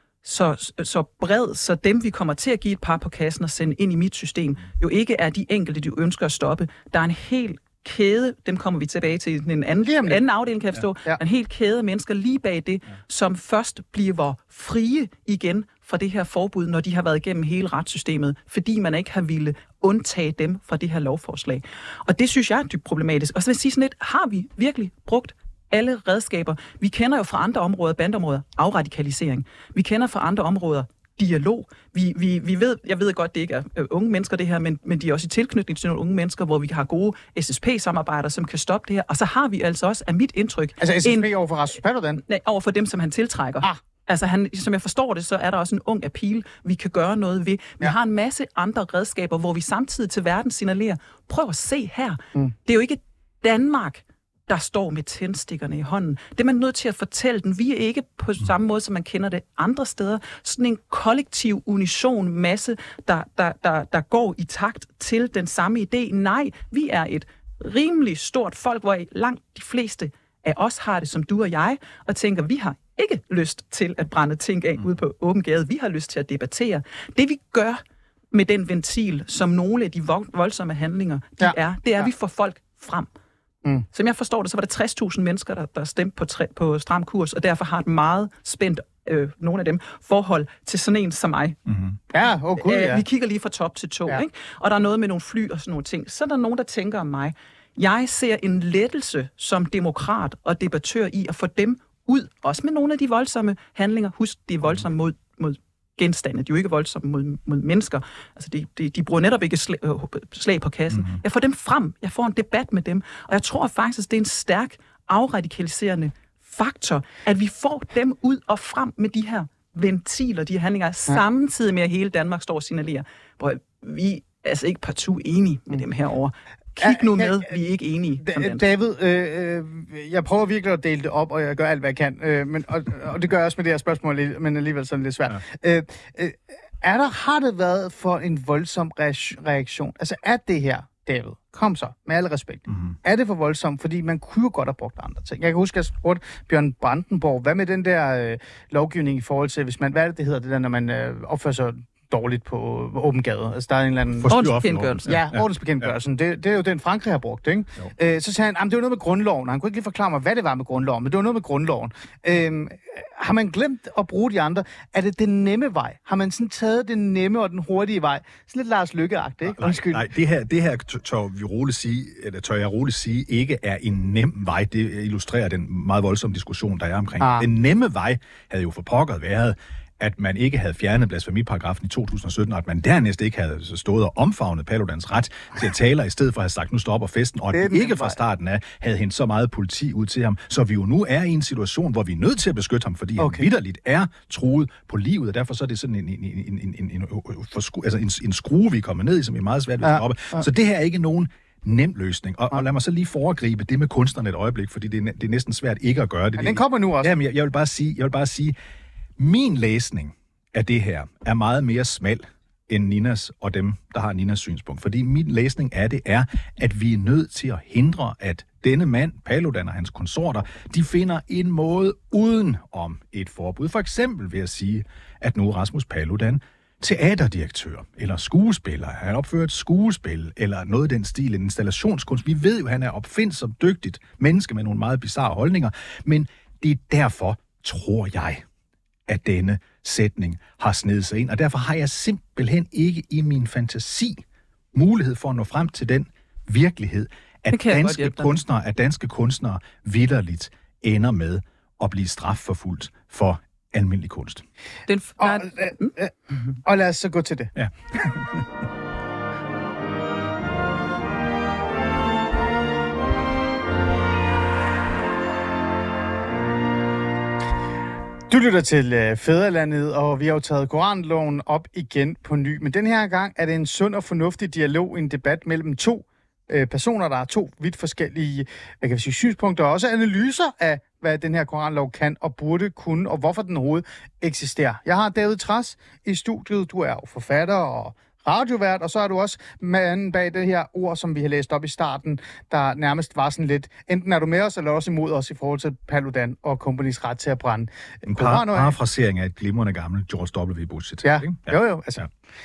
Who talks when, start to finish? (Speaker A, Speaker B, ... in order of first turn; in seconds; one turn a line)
Speaker A: 0.2-41.3
Speaker B: 9.8-10.2
Speaker B: 40.8-42.2
Speaker A: 42.2-77.8
Speaker A: 78.3-83.1
Speaker B: 81.4-82.1
Speaker A: 83.9-91.6
Speaker C: 91.7-92.0
Speaker B: 92.1-93.0
Speaker A: 92.6-128.6
Speaker C: 110.9-111.2
Speaker B: 126.8-127.5
Speaker B: 128.2-154.3
Speaker C: 142.7-143.0
Speaker C: 154.2-155.5
Speaker A: 154.3-155.2
Speaker B: 155.1-170.1
Speaker C: 169.5-208.5
Speaker B: 177.2-177.5
Speaker B: 187.5-188.2
Speaker B: 193.2-193.5
Speaker B: 199.8-200.4
Speaker B: 206.4-207.1
Speaker C: 209.2-238.4
Speaker C: 239.1-254.4
Speaker A: 247.5-248.4
Speaker A: 254.9-255.9
Speaker B: 255.2-256.1
Speaker B: 256.6-257.6
Speaker C: 257.6-258.5
Speaker B: 268.3-298.7
Speaker C: 298.0-302.1
Speaker B: 301.0-302.1